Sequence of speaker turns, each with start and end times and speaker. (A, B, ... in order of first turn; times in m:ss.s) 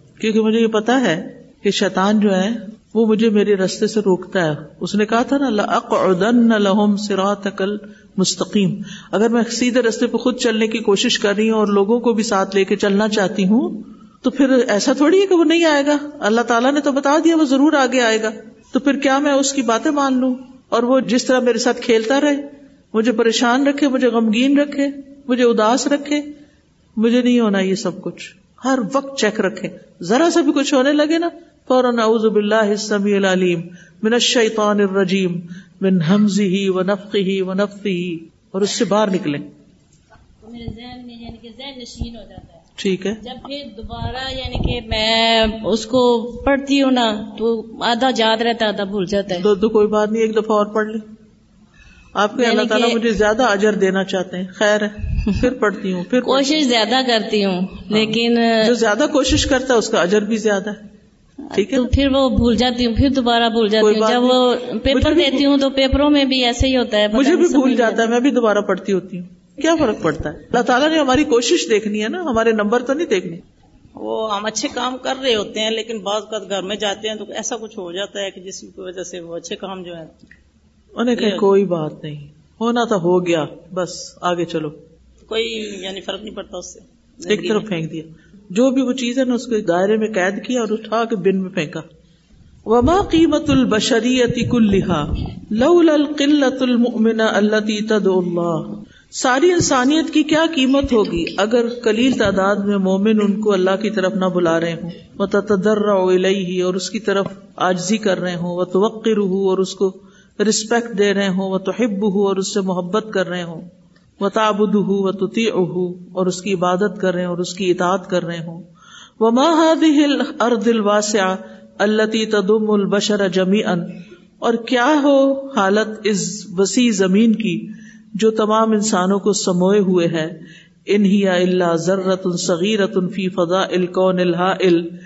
0:00.2-0:26.2 A
0:27.0-0:39.4 A
0:40.4-0:42.6 B
0:42.8-0:43.2 A
0:43.2-0:49.5 B
0:49.4-0:51.0 A
0:52.2-0:56.7 A
0:52.4-0:53.0 B
0:56.2-0:58.7 B
0:57.9-1:00.8 A
1:01.5-1:01.9 A
1:01.6-1:08.1 B
1:03.8-1:05.5 A
1:07.1-1:13.4 A
1:14.0-1:20.1 C
1:21.0-1:24.8 A
1:21.2-1:21.4 C
1:25.3-1:27.6 C
1:27.3-1:31.8 A
1:32.7-1:53.7 A
1:54.2-1:58.7 A
1:59.2-2:10.3 A
2:10.9-2:14.9 A